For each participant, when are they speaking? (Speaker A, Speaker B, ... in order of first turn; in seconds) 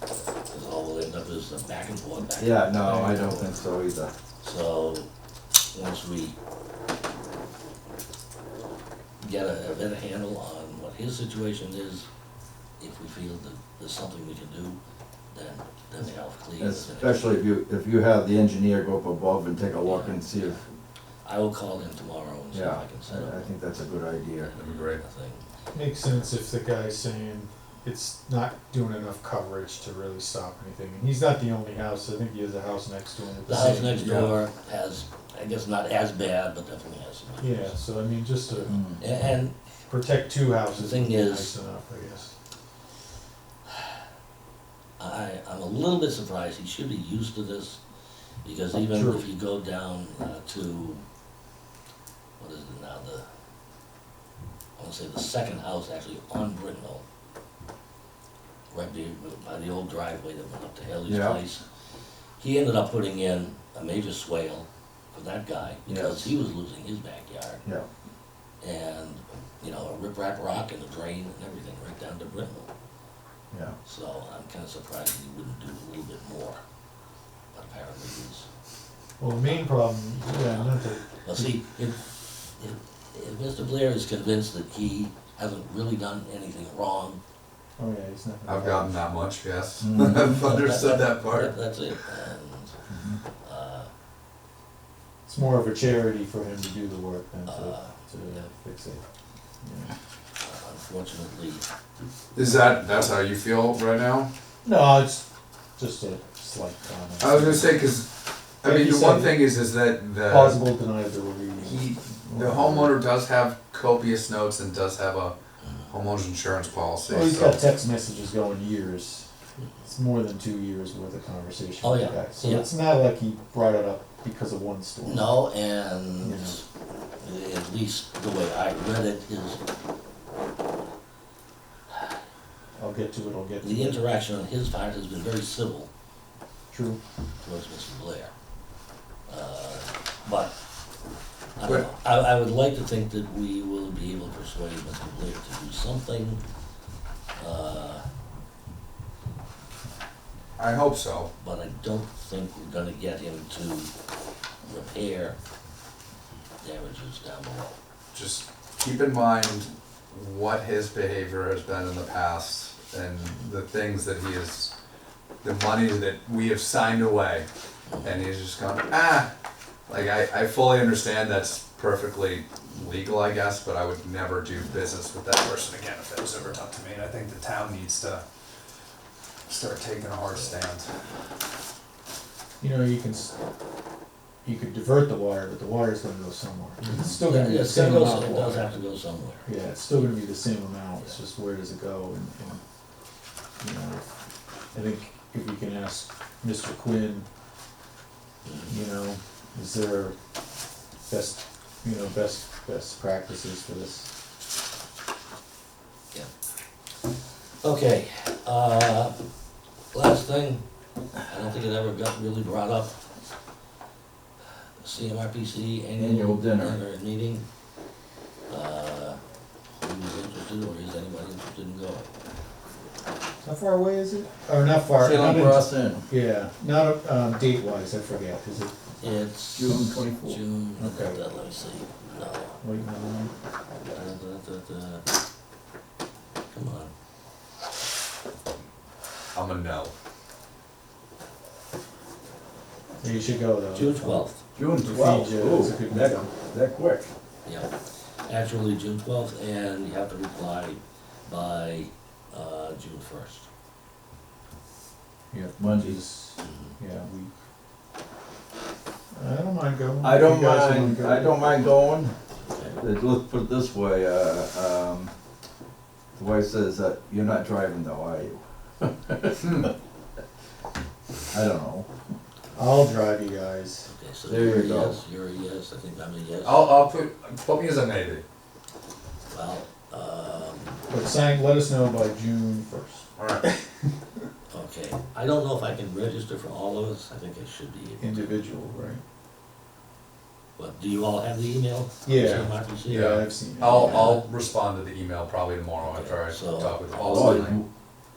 Speaker A: 0.5-3.5, 4.4-5.1, 5.7-6.4, 9.2-12.1, 12.8-14.8, 15.3-17.3, 19.8-20.6, 21.2-23.5, 24.4-25.5, 33.5-37.8, 39.0-39.5, 40.8-41.5, 45.0-47.8, 48.4-51.0, 52.4-53.3, 54.8-57.0, 58.7-61.6, 62.4-67.6, 68.6-72.7, 73.8-76.6, 77.5-78.5, 80.2-80.7, 81.2-87.2, 90.3-92.8, 93.4-93.9, 97.5-98.5, 100.4-101.7, 115.6-115.9, 121.8-122.7, 125.0-126.6, 127.2-129.6, 133.6-135.9, 137.4-138.3, 139.3-140.6, 141.6-146.4, 147.4-148.1, 151.4-153.9, 154.7-155.4, 156.6-157.8, 167.9-168.2, 180.3-180.6, 187.3-190.4, 198.4-198.8, 207.6-209.2, 209.9-210.7, 211.3-213.0, 214.8-217.5, 218.5-219.2, 219.8-222.1, 229.0-232.6, 233.9-235.1, 236.5-236.9, 243.7-244.4, 247.4-247.7, 248.2-253.5, 256.4-256.8, 262.4-262.8, 273.9-276.7, 279.3-280.8, 284.5-288.5, 290.6-294.2, 295.8-297.6
Speaker B: 2.4-4.1, 16.6-20.6, 22.5-24.5, 38.7-39.0, 61.1-61.4, 65.9-66.3, 89.8-90.3, 92.9-93.2, 215.9-216.8, 225.0-226.1, 229.5-230.4, 244.6-247.1, 255.5-256.0, 260.0-262.1, 262.7-265.1, 266.1-269.6, 271.3-271.9, 274.3-275.0, 297.1-297.7
Speaker C: 2.9-3.3, 25.7-34.3, 37.4-38.8, 39.9-42.3, 48.9-49.2, 79.2-81.5, 87.8-89.0, 95.2-99.0, 99.6-99.9, 104.6-105.2, 105.8-107.9, 108.6-109.5, 110.2-113.0, 117.1-119.3, 119.8-125.3, 126.2-126.6, 132.8-134.1, 136.7-137.0, 182.6-183.4, 184.4-188.8, 189.4-192.6, 193.6-194.2, 194.7-197.3, 198.7-200.2, 201.1-204.1, 223.4-228.7, 230.8-231.2, 232.6-233.3, 243.0-246.3, 255.3-257.3, 259.1-261.5, 272.6-273.9, 280.9-283.6, 288.0-289.0, 292.1-294.2
Speaker D: 24.6-25.0, 88.5-91.6, 102.3-104.3, 107.2-110.6, 111.6-115.3, 115.9-117.6, 150.6-151.3, 158.1-164.7, 165.4-167.5, 168.0-169.3, 169.9-178.2, 179.5-180.9, 186.8-187.1, 239.3-239.9, 269.4-269.7, 276.4-278.2, 283.2-283.4, 292.9-297.6